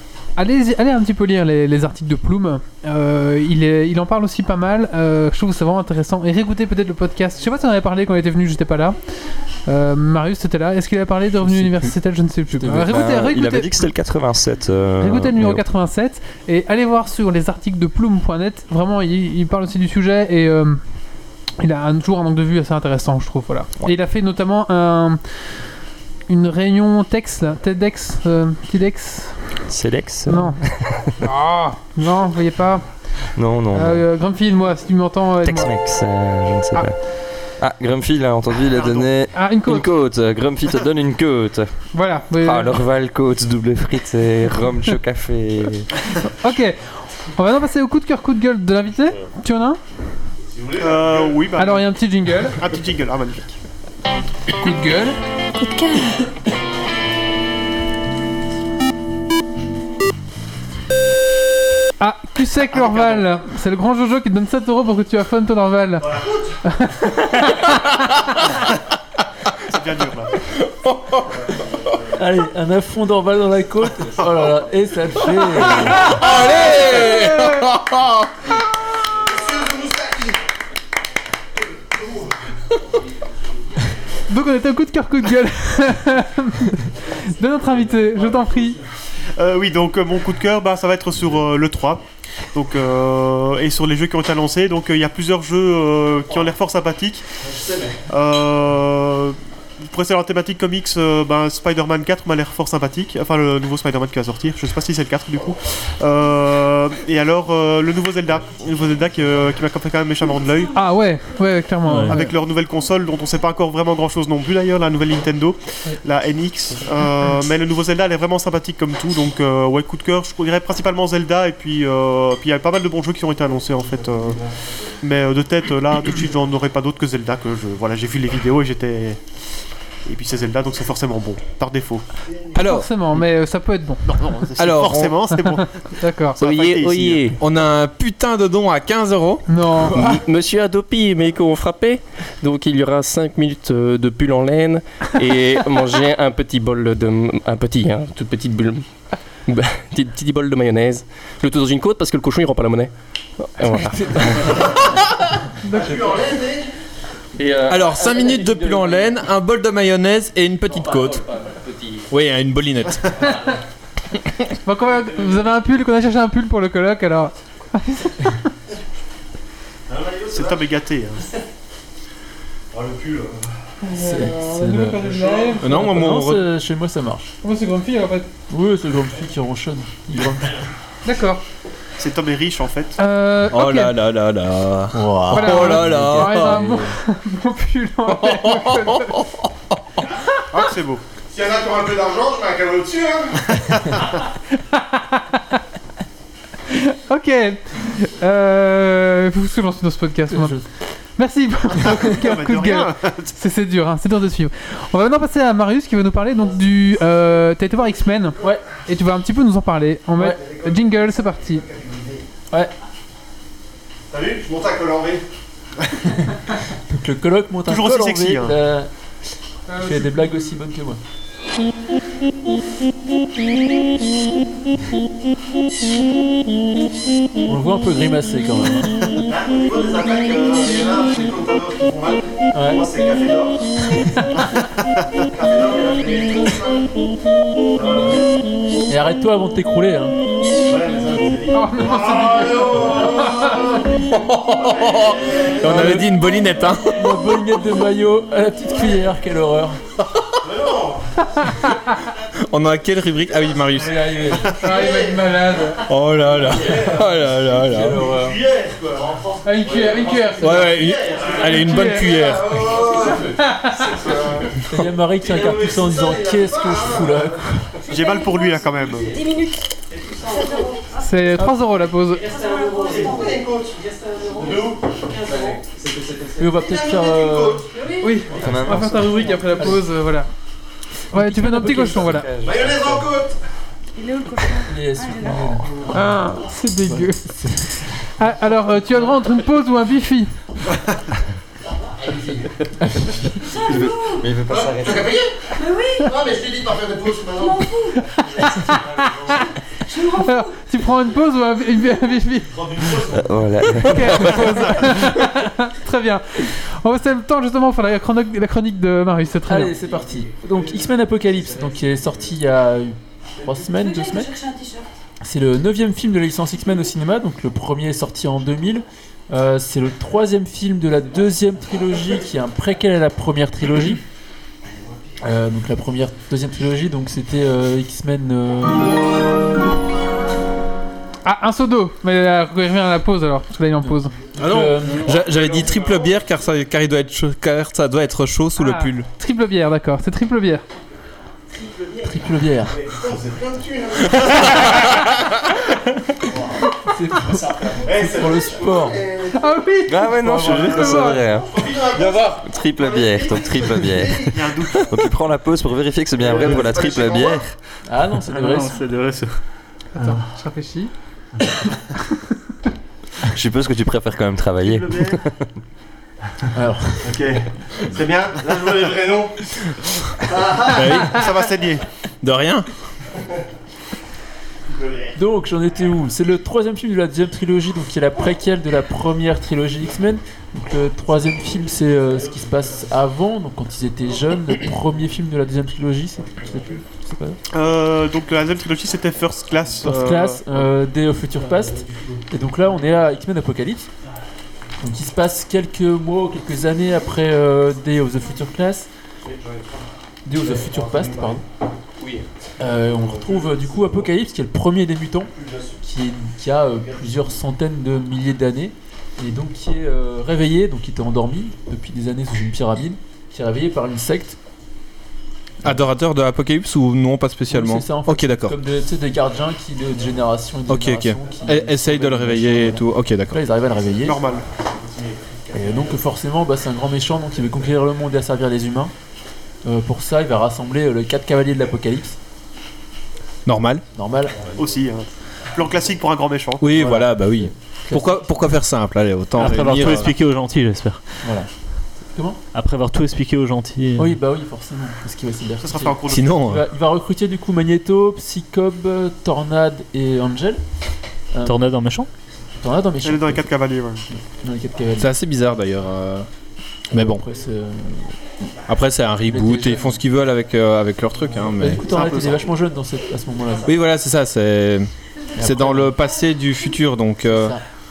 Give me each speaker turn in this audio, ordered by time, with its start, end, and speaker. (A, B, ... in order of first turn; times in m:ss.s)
0:00.4-0:09.0 A
0:09.6-0:13.9 A
0:11.4-0:11.8 B
0:12.5-0:13.0 B
0:12.6-0:15.6 C
0:15.0-0:20.8 A
0:21.6-0:25.2 A
0:26.3-0:29.4 A
0:29.7-0:31.2 C
0:30.3-0:30.6 A
0:31.2-0:32.8 A
0:33.4-0:34.0 C
0:33.7-0:35.7 A
0:35.4-0:37.0 C
0:37.6-0:41.7 C
0:39.3-0:39.9 A
0:41.9-0:42.8 A
0:42.4-0:45.9 C
0:46.3-0:49.8 A
0:50.5-0:51.4 D
0:50.8-0:51.9 E
0:51.6-0:52.6 A
0:52.4-0:53.5 E
0:54.6-0:55.2 A
0:55.5-0:56.2 F
1:02.0-1:06.1 A
1:02.7-1:03.2 E
1:06.0-1:06.4 D
1:06.6-1:07.7 A
1:09.7-1:10.4 E
1:10.8-1:11.2 G
1:12.2-1:16.2 B
1:15.8-1:18.3 G
1:17.0-1:17.6 A
1:19.2-1:20.4 D
1:24.3-1:28.8 A
1:29.4-1:37.2 E
1:38.1-1:50.7 E
1:50.7-1:52.3 A
1:51.9-1:52.2 H
1:52.1-2:04.4 E
2:05.0-2:09.2 E
2:10.0-2:12.0 E
2:12.5-2:13.2 G
2:12.6-2:14.0 A
2:14.0-2:17.3 E
2:14.6-2:15.2 G
2:15.3-2:16.4 A
2:16.4-2:17.4 I
2:17.4-2:19.4 G
2:19.5-2:20.0 A
2:19.9-2:34.5 I
2:33.7-2:34.8 B
2:35.6-2:36.0 A
2:35.7-2:36.7 D
2:37.4-2:39.1 I
2:37.7-2:41.3 G
2:41.1-2:42.0 I
2:42.1-2:43.1 G
2:44.6-2:48.5 A
2:49.9-2:50.6 D
2:50.3-2:51.2 E
2:52.7-2:53.4 D
2:53.8-2:55.8 A
2:54.0-2:55.0 B
2:55.0-2:55.6 D
2:55.6-2:56.5 G
2:55.6-2:57.3 B
2:57.4-2:58.3 A
2:58.5-3:00.6 B
3:01.0-3:01.4 A
3:02.0-3:03.0 E
3:03.0-3:04.0 A
3:03.5-3:06.8 G
3:04.9-3:07.0 B
3:05.3-3:09.2 A
3:08.0-3:09.7 G
3:10.5-3:11.0 E
3:11.3-3:13.6 D
3:14.7-3:15.6 A
3:16.7-3:20.6 A
3:20.3-3:20.6 B
3:21.2-3:31.6 A
3:21.8-3:23.3 E
3:31.7-3:32.2 D
3:34.1-3:35.2 D
3:36.9-3:38.9 B
3:37.6-3:38.5 E
3:39.7-3:40.2 A
3:39.8-3:41.0 B
3:47.4-3:49.2 B
3:49.2-3:53.8 D
3:52.5-3:52.9 B
3:55.2-3:56.9 D
3:57.7-3:58.2 D
3:58.9-4:00.2 B
4:00.6-4:06.0 D
4:01.5-4:03.6 A
4:04.2-4:07.4 G
4:05.6-4:06.0 B
4:06.9-4:09.8 B
4:10.4-4:11.0 D
4:12.4-4:14.1 G
4:13.7-4:14.6 B
4:14.5-4:15.8 A
4:14.6-4:15.3 D
4:15.9-4:18.1 G
4:16.5-4:16.8 D
4:16.6-4:17.1 B
4:17.6-4:18.4 B
4:18.1-4:19.2 D
4:19.4-4:20.7 A
4:20.4-4:22.9 G
4:20.7-4:24.6 D
4:21.5-4:22.3 A
4:23.4-4:23.9 A
4:24.6-4:27.8 B
4:25.2-4:27.2 D
4:27.9-4:29.2 E
4:27.9-4:28.6 F
4:29.1-4:29.6 F
4:30.2-4:30.8 F
4:31.0-4:32.3 A
4:32.3-4:33.4 F
4:32.8-4:35.4 D
4:35.2-4:35.6 F
4:36.3-4:37.7 B
4:36.6-4:37.7 D
4:37.8-4:38.2 F
4:38.0-4:40.3 A
4:38.3-4:39.3 C
4:38.4-4:39.8 B
4:41.1-4:42.3 A
4:41.1-4:42.2 B
4:42.0-4:42.9 C
4:42.4-4:43.4 D
4:44.0-4:45.6 F
4:44.6-4:46.3 B
4:45.9-4:47.3 A
4:46.8-4:47.7 B
4:48.2-4:50.4 A
4:53.6-4:55.1 C
4:53.7-4:54.1 F
4:54.5-4:55.3 D
4:55.6-4:56.1 F
4:56.0-4:57.6 D
4:57.4-4:58.0 F
4:58.1-4:59.4 A
4:59.9-5:00.5 F
5:00.0-5:02.9 A
5:02.6-5:03.6 D
5:03.0-5:04.9 C
5:03.7-5:09.8 A
5:09.4-5:14.4 B
5:13.9-5:14.8 F
5:15.2-5:24.0 B
5:25.2-5:29.1 B
5:31.2-5:34.1 A
5:33.8-5:35.1 B
5:34.4-5:39.1 G
5:38.6-5:40.6 A
5:42.0-5:42.8 B
5:42.7-5:44.8 D
5:46.8-5:49.0 B
5:47.4-5:49.4 D
5:49.3-5:51.2 A
5:49.8-5:57.5 C
5:50.2-5:51.1 B
5:51.3-5:54.3 D
5:54.3-5:55.0 E
5:56.2-5:57.4 D
5:57.8-5:58.8 B
5:58.2-5:59.4 H
5:59.9-6:00.9 A
6:03.3-6:05.4 C
6:04.7-6:05.1 D
6:06.5-6:07.2 B
6:07.0-6:09.4 D
6:10.2-6:11.0 D
6:10.7-6:11.2 G
6:11.1-6:11.8 E
6:12.2-6:12.7 G
6:14.7-6:15.2 D
6:15.2-6:27.4 B
6:27.5-6:30.4 E
6:29.8-6:33.9 B
6:34.8-6:38.9 B
6:40.2-6:41.4 B
6:42.6-6:54.4 B
6:55.6-6:58.6 G
6:57.5-7:04.2 B
7:00.7-7:03.4 G
7:04.0-7:04.4 E
7:05.5-7:08.9 B
7:09.6-7:12.2 B
7:13.4-7:13.8 G
7:13.9-7:14.4 B
7:14.6-7:16.7 E
7:16.6-7:20.1 G
7:16.7-7:18.3 B
7:19.4-7:21.2 H
7:19.4-7:20.0 E
7:21.2-7:21.5 B
7:22.1-7:22.4 B
7:22.5-7:24.2 H
7:24.0-7:30.6 B
7:25.6-7:26.5 E
7:26.1-7:26.6 G
7:31.3-7:31.6 B
7:31.4-7:32.1 H
7:32.6-7:33.4 B
7:33.0-7:34.1 E
7:34.1-7:35.1 B
7:35.0-7:36.3 G
7:36.9-7:37.2 G
7:36.9-7:38.3 B
7:38.7-7:41.9 G
7:39.3-7:40.0 B
7:41.6-7:43.7 B
7:41.9-7:42.5 E
7:43.6-7:47.5 G
7:45.4-7:45.9 B
7:47.3-7:47.6 B